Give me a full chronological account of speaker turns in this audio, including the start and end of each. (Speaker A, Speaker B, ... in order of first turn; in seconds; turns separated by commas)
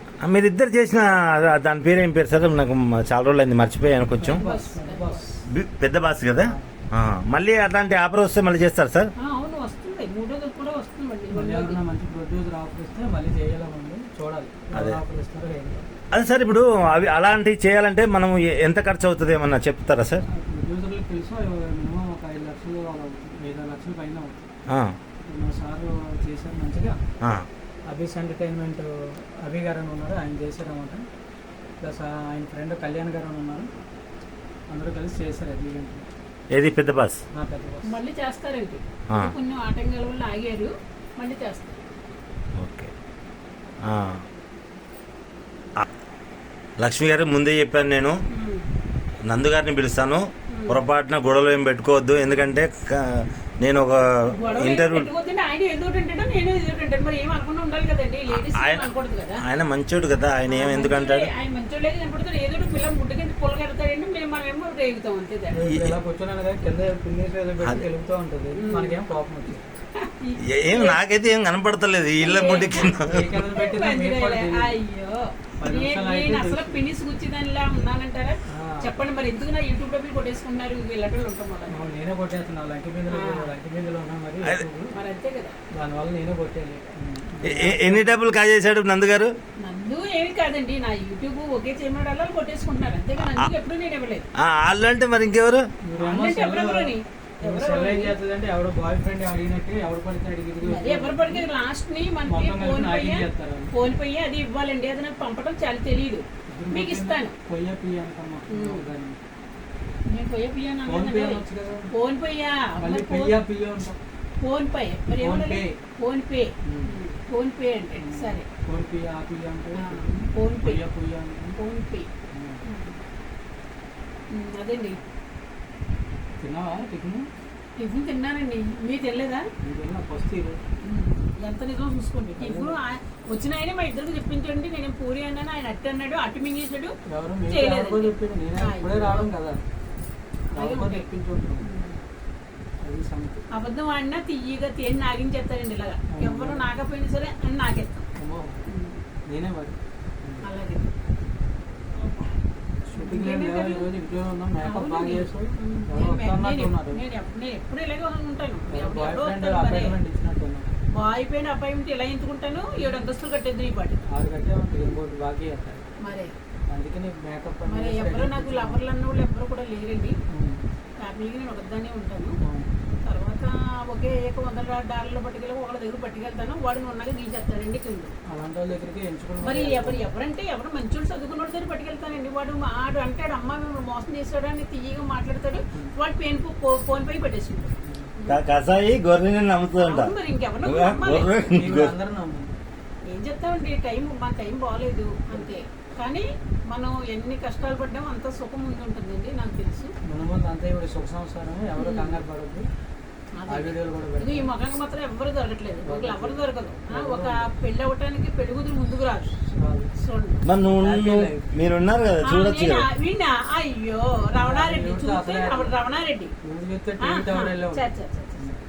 Speaker A: 0.2-4.4, Speaker B: 4.2-5.4, Speaker C: 4.2-5.2, Speaker A: 5.5-9.1, Speaker B: 6.4-6.7, Speaker C: 9.2-11.8, Speaker B: 11.3-15.9, Speaker A: 14.7-15.0, Speaker A: 16.1-20.2, Speaker B: 20.3-24.5, Speaker B: 25.3-27.0, Speaker B: 27.9-31.1, Speaker B: 31.8-33.7, Speaker B: 34.7-36.1, Speaker A: 36.5-37.2, Speaker B: 37.3-37.9, Speaker C: 37.8-41.8, Speaker A: 42.6-42.9, Speaker A: 43.9-44.2, Speaker A: 46.8-48.2, Speaker C: 48.3-48.7, Speaker A: 49.3-55.1, Speaker C: 50.5-50.8, Speaker C: 54.3-59.4, Speaker A: 58.6-58.9, Speaker A: 59.4-61.3, Speaker C: 60.5-65.7, Speaker B: 65.5-69.7, Speaker A: 65.7-66.0, Speaker C: 68.5-69.0, Speaker C: 70.0-71.0, Speaker A: 70.6-73.4, Speaker C: 72.2-73.0, Speaker B: 73.1-74.8, Speaker C: 73.5-81.8, Speaker B: 75.6-76.8, Speaker B: 78.5-78.9, Speaker B: 81.7-85.0, Speaker C: 83.1-83.5, Speaker C: 84.9-85.6, Speaker B: 85.8-88.1, Speaker A: 87.4-89.3, Speaker C: 89.6-94.3, Speaker A: 94.4-95.7, Speaker B: 95.9-101.5, Speaker C: 96.0-98.2, Speaker C: 100.6-107.3, Speaker B: 102.3-103.7, Speaker B: 106.5-109.2, Speaker C: 108.5-108.9, Speaker C: 110.1-113.4, Speaker B: 110.9-111.9, Speaker B: 112.8-114.0, Speaker C: 114.4-118.5, Speaker B: 115.2-115.8, Speaker B: 116.7-117.0, Speaker B: 118.0-121.6, Speaker C: 119.7-120.8, Speaker C: 121.6-122.1, Speaker B: 122.3-122.6, Speaker C: 122.6-123.0, Speaker C: 124.3-125.0, Speaker B: 126.4-127.3, Speaker C: 127.8-129.5, Speaker B: 129.6-130.6, Speaker C: 130.8-136.9, Speaker B: 132.4-132.8, Speaker B: 137.1-139.6, Speaker C: 137.5-139.3, Speaker C: 140.6-141.1, Speaker B: 140.6-141.7, Speaker C: 141.6-142.0, Speaker B: 142.8-143.4, Speaker C: 143.5-148.1, Speaker B: 146.1-146.7, Speaker B: 148.2-148.6, Speaker C: 148.7-149.0, Speaker B: 149.3-150.4, Speaker C: 150.4-150.9, Speaker C: 152.0-152.4, Speaker B: 152.9-157.0, Speaker C: 153.0-153.9, Speaker C: 154.6-160.0, Speaker B: 158.7-160.7, Speaker C: 160.9-164.0, Speaker B: 162.8-163.1, Speaker B: 164.1-165.8, Speaker C: 166.0-166.3, Speaker B: 166.7-168.8, Speaker C: 167.7-170.2, Speaker B: 170.3-170.6, Speaker C: 171.0-172.4, Speaker B: 172.4-172.7, Speaker C: 173.0-178.1, Speaker B: 178.3-180.1, Speaker C: 179.4-188.4, Speaker A: 188.3-190.1, Speaker C: 189.8-191.3, Speaker A: 190.7-191.9, Speaker B: 191.5-192.5, Speaker C: 193.1-199.9, Speaker B: 200.1-202.7, Speaker C: 201.8-202.2, Speaker C: 203.3-209.3, Speaker B: 203.5-204.5, Speaker B: 205.8-207.5, Speaker B: 209.4-209.9, Speaker C: 210.0-210.5, Speaker A: 210.5-212.9, Speaker B: 210.8-211.5, Speaker C: 212.2-216.3, Speaker B: 214.3-215.8, Speaker B: 216.4-218.6, Speaker C: 217.0-218.5